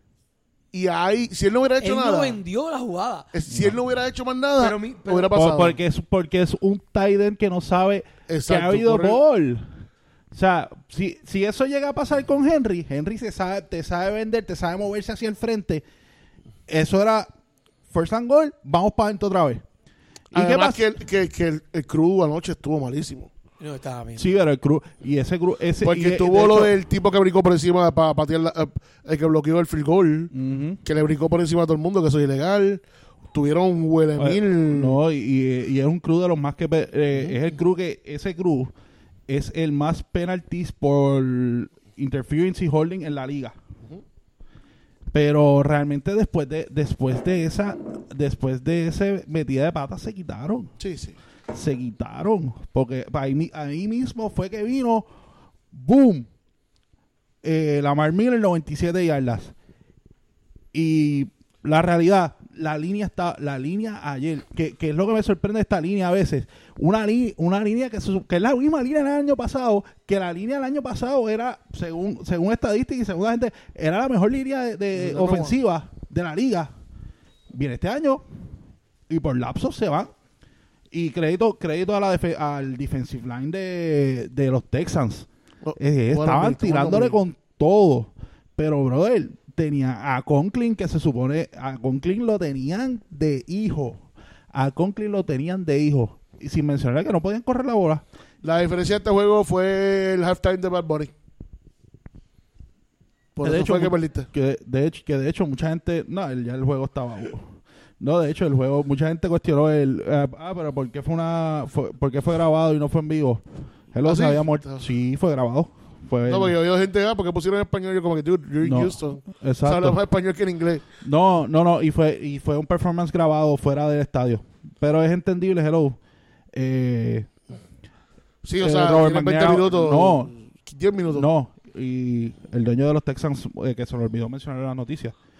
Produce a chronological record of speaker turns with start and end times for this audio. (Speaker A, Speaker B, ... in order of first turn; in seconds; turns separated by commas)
Speaker A: 0.7-2.4, Speaker B: 1.8-3.3, Speaker A: 3.3-5.8, Speaker C: 3.5-3.8, Speaker B: 4.6-5.3, Speaker C: 5.3-9.7, Speaker A: 8.3-9.2, Speaker C: 10.3-15.8, Speaker C: 16.7-17.3, Speaker C: 17.9-19.6, Speaker C: 20.3-20.9, Speaker A: 20.3-23.3, Speaker B: 23.6-24.4, Speaker C: 24.2-26.7, Speaker A: 25.8-30.3, Speaker C: 30.3-30.8, Speaker A: 30.8-35.0, Speaker C: 34.2-38.7, Speaker A: 37.1-37.4, Speaker C: 39.3-43.6, Speaker C: 45.1-50.7, Speaker A: 50.8-51.2, Speaker C: 51.5-55.1, Speaker C: 55.7-56.3, Speaker C: 57.4-59.5, Speaker C: 60.7-76.7, Speaker A: 74.9-75.6, Speaker C: 77.5-78.2, Speaker C: 79.1-80.1, Speaker C: 80.9-94.0, Speaker A: 85.6-87.2, Speaker C: 94.5-98.0, Speaker A: 98.4-101.1, Speaker A: 103.3-104.3, Speaker C: 103.4-113.4, Speaker C: 113.9-116.5, Speaker A: 114.0-114.8, Speaker A: 116.2-120.8, Speaker C: 118.6-120.0, Speaker C: 121.0-126.0, Speaker C: 126.5-127.3, Speaker A: 128.4-131.3, Speaker C: 128.6-130.3, Speaker C: 131.1-135.1